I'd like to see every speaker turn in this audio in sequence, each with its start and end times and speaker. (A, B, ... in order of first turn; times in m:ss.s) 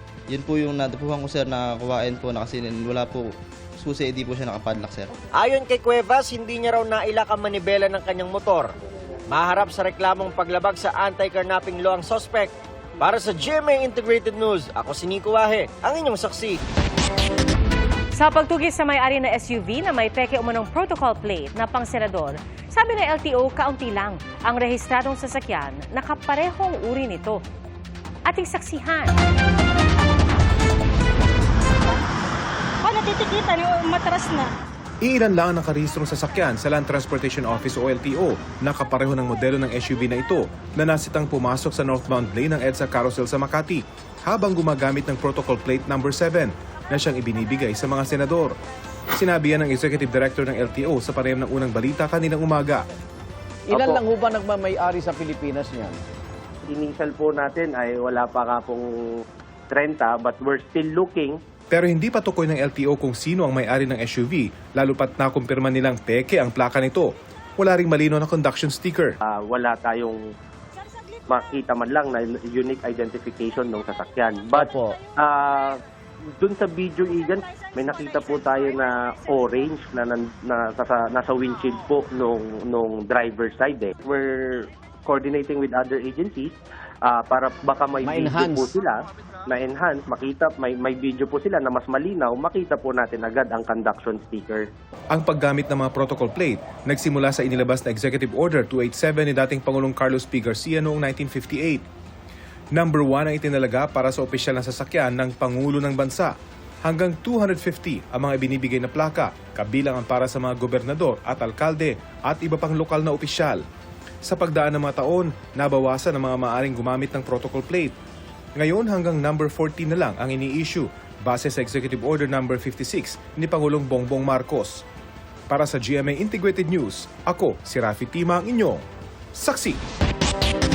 0:00.3-0:05.1 A
0:05.3-0:08.7 B
0:09.3-0:16.6 B
0:18.1-0:27.4 C
0:28.2-0:29.1 C
0:35.0-0:48.6 D
0:49.1-0:52.8 D
0:53.7-0:56.0 E
0:56.7-0:58.8 F
0:59.7-1:01.4 F
1:01.7-1:09.1 D
1:09.4-1:10.2 F
1:11.3-1:14.6 F
1:14.5-1:14.9 E
1:15.2-1:15.7 F
1:16.4-1:24.3 F
1:25.1-1:26.5 F
1:27.1-1:28.9 F
1:28.0-1:28.7 E
1:29.5-1:34.6 F
1:35.1-1:41.8 D
1:42.7-1:46.3 D
1:46.8-1:53.6 D
1:54.2-1:57.9 D
1:58.6-2:04.8 D
2:05.5-2:08.8 D
2:09.3-2:09.8 D